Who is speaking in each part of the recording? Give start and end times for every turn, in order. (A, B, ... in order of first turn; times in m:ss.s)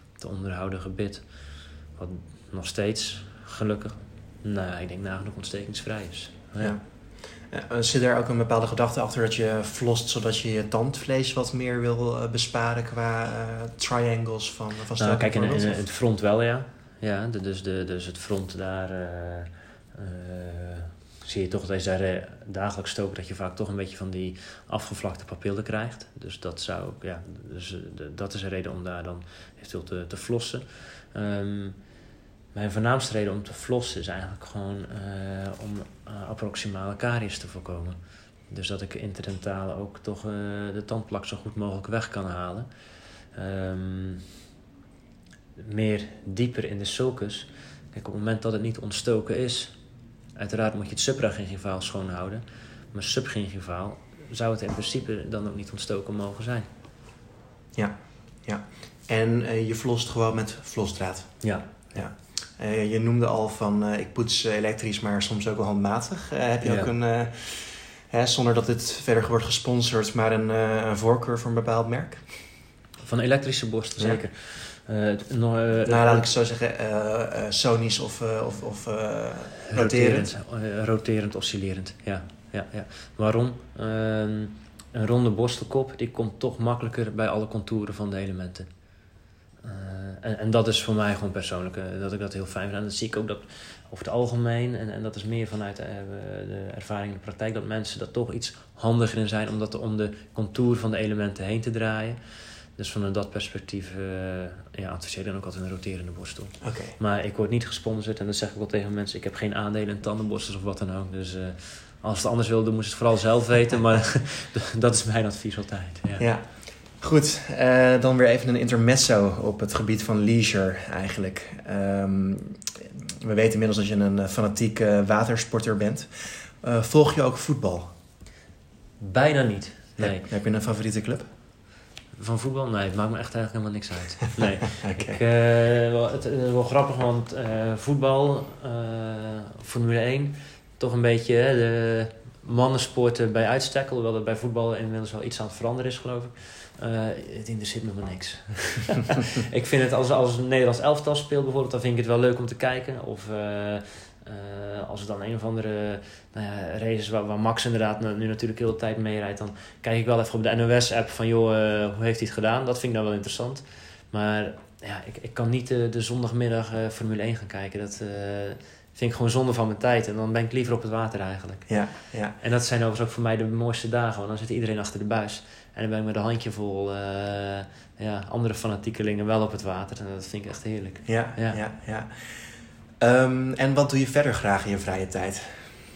0:00.2-0:06.8 A
0:06.6-0:15.9 B
0:15.0-0:31.8 A
0:32.5-0:42.7 A
0:43.3-0:44.2 A
0:45.6-0:49.7 A
0:50.4-0:56.7 A
0:57.8-1:12.4 B
1:06.6-1:06.9 A
1:13.0-1:16.3 A
1:14.0-1:14.2 B
1:15.9-1:20.3 B
1:19.7-1:28.7 A
1:29.6-1:42.2 A
1:42.8-1:56.3 A
1:46.6-1:47.0 B
1:56.2-2:07.9 B
2:09.0-2:10.3 A
2:10.0-2:11.2 B
2:12.2-3:01.6 A
2:14.8-2:15.2 B
2:51.7-2:52.4 B
3:01.1-3:05.7 B